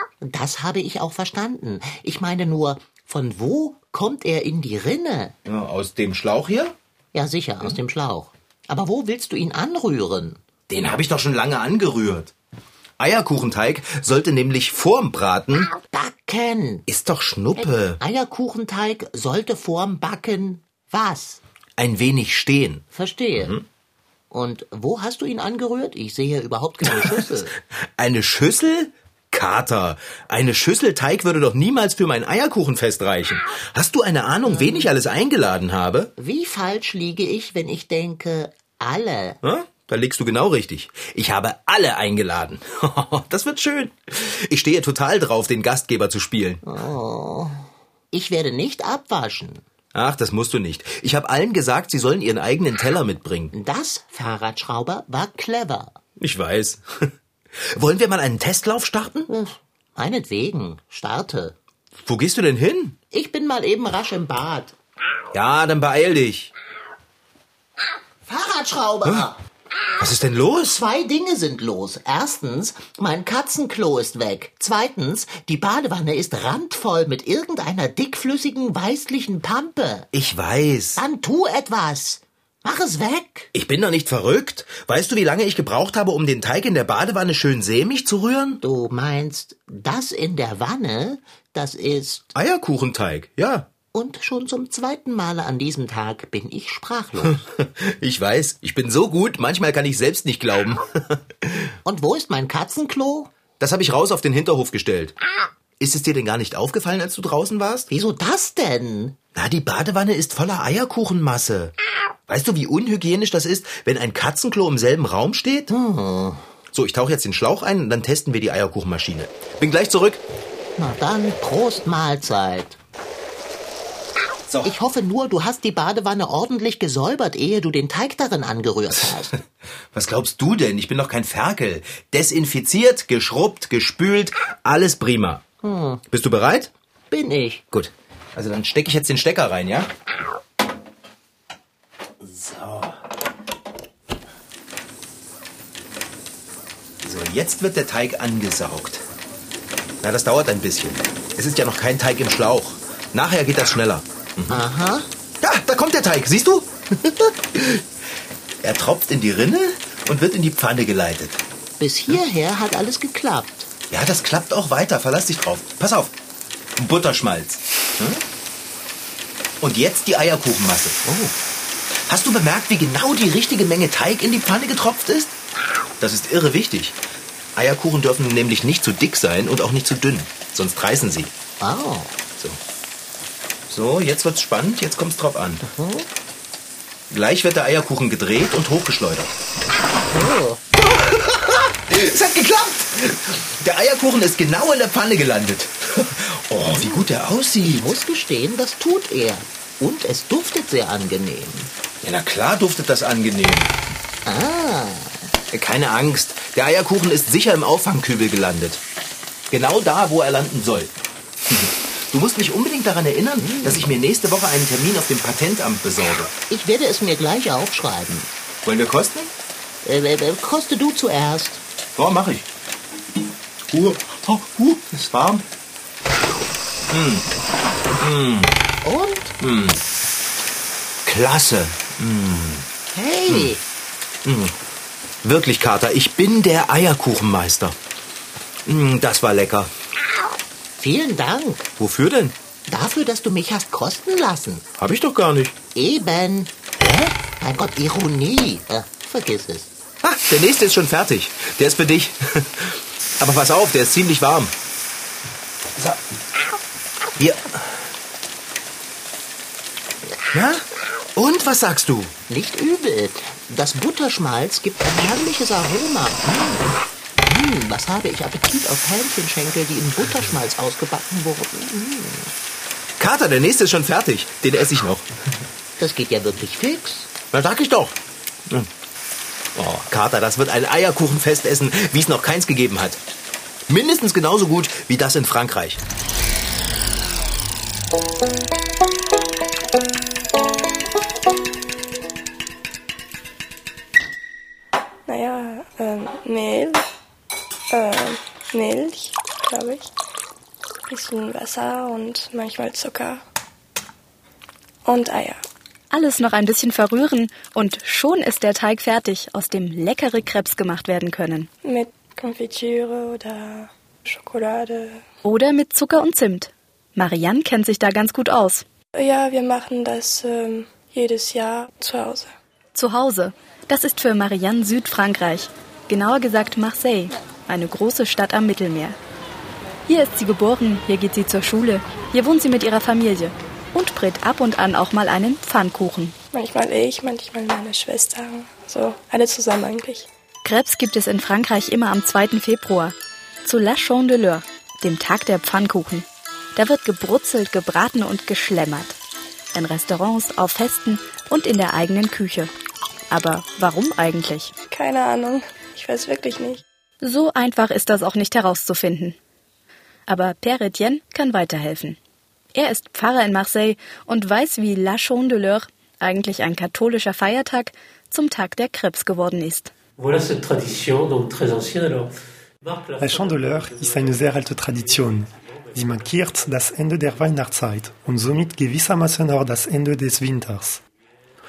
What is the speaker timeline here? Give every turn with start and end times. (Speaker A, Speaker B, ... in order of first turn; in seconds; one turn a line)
Speaker A: 0.2-5.3
Speaker B: 5.4-6.7
Speaker A: 7.1-10.4
Speaker B: 10.7-12.3
Speaker B: 13.0-15.7
Speaker A: 15.8-16.8
Speaker B: 16.9-18.0
Speaker A: 17.6-21.4
Speaker B: 21.8-22.8
Speaker A: 22.9-23.6
Speaker B: 23.4-23.6
Speaker A: 24.3-27.5
Speaker B: 26.9-27.2
Speaker B: 28.0-36.1
Speaker A: 34.4-34.9
Speaker A: 36.2-39.4
Speaker B: 39.4-46.6
Speaker A: 46.6-49.6
Speaker B: 49.9-53.5
Speaker A: 53.5-56.0
Speaker B: 56.2-57.1
Speaker B: 57.7-59.3
Speaker A: 59.3-61.5
Speaker B: 62.0-63.0
Speaker A: 63.1-64.7
Speaker B: 65.3-66.5
Speaker A: 68.2-69.4
Speaker B: 70.0-70.8
Speaker A: 70.6-80.1
Speaker B: 80.1-81.0
Speaker A: 81.0-83.5
Speaker B: 83.5-88.6
Speaker A: 88.6-92.3
Speaker B: 92.3-93.7
Speaker A: 93.9-97.4
Speaker B: 97.2-101.7
Speaker A: 101.8-103.3
Speaker B: 103.6-105.2
Speaker B: 105.8-107.9
Speaker A: 107.9-109.2
Speaker B: 109.3-111.7
Speaker B: 112.3-115.7
Speaker A: 115.7-116.4
Speaker B: 116.7-120.2
Speaker A: 120.8-122.8
Speaker A: 124.6-129.4
Speaker B: 129.0-129.4
Speaker B: 129.9-135.4
Speaker A: 135.6-136.0
Speaker B: 136.1-136.7
Speaker A: 137.1-137.6
Speaker B: 137.7-139.9
Speaker B: 142.2-143.0
Speaker B: 147.0-149.0
Speaker B: 150.0-154.6
Speaker A: 154.5-155.1
Speaker B: 155.4-157.9
Speaker B: 158.6-161.4
Speaker A: 161.8-163.7
Speaker B: 163.9-166.1
Speaker B: 166.8-168.2
Speaker B: 169.6-171.0
Speaker A: 171.0-171.3
Speaker B: 172.1-175.3
Speaker B: 176.0-177.0
Speaker B: 177.6-181.3
Speaker A: 181.6-182.2
Speaker B: 183.7-185.6
Speaker A: 185.6-186.1
Speaker B: 187.1-189.3
Speaker A: 190.1-190.6
Speaker B: 190.8-197.9
Speaker A: 196.7-197.1
Speaker A: 197.6-201.7
Speaker B: 202.0-203.7
Speaker A: 204.2-205.3
Speaker B: 205.5-208.8
Speaker B: 209.5-210.9
Speaker B: 211.5-216.3
Speaker A: 213.4-213.9
Speaker A: 216.5-218.3
Speaker B: 218.6-219.3
Speaker A: 219.8-221.6
Speaker B: 221.9-222.4
Speaker B: 223.7-225.4
Speaker B: 226.9-227.2
Speaker B: 228.0-228.5
Speaker A: 228.8-229.3
Speaker B: 229.4-229.8
Speaker B: 231.1-232.7
Speaker A: 232.9-233.6
Speaker B: 233.3-233.5
Speaker B: 234.2-234.5
Speaker B: 235.2-237.8
Speaker B: 238.7-239.7
Speaker A: 240.8-241.7
Speaker B: 241.8-242.3
Speaker A: 242.7-244.6
Speaker B: 244.8-245.6
Speaker A: 245.7-249.7
Speaker B: 250.0-254.5
Speaker B: 257.2-257.8
Speaker B: 260.3-260.6
Speaker B: 261.1-262.1
Speaker A: 262.3-266.7
Speaker A: 267.2-272.3
Speaker B: 273.0-275.1
Speaker A: 275.8-277.1
Speaker B: 277.3-277.9
Speaker B: 279.5-283.0
Speaker B: 283.7-285.8
Speaker C: 295.1-296.8
Speaker C: 297.7-299.9
Speaker C: 300.9-303.2
Speaker C: 304.8-305.4
Speaker D: 305.9-311.5
Speaker C: 311.6-315.0
Speaker D: 315.2-318.6
Speaker C: 318.9-322.3
Speaker D: 322.7-329.0
Speaker D: 329.9-336.1
Speaker C: 336.3-340.1
Speaker D: 340.4-348.9
Speaker D: 349.5-352.5
Speaker D: 353.1-354.5
Speaker C: 354.7-356.6
Speaker D: 357.0-359.2
Speaker D: 360.1-362.0
Speaker D: 362.5-369.7
Speaker E: 370.0-378.6
Speaker F: 373.0-380.8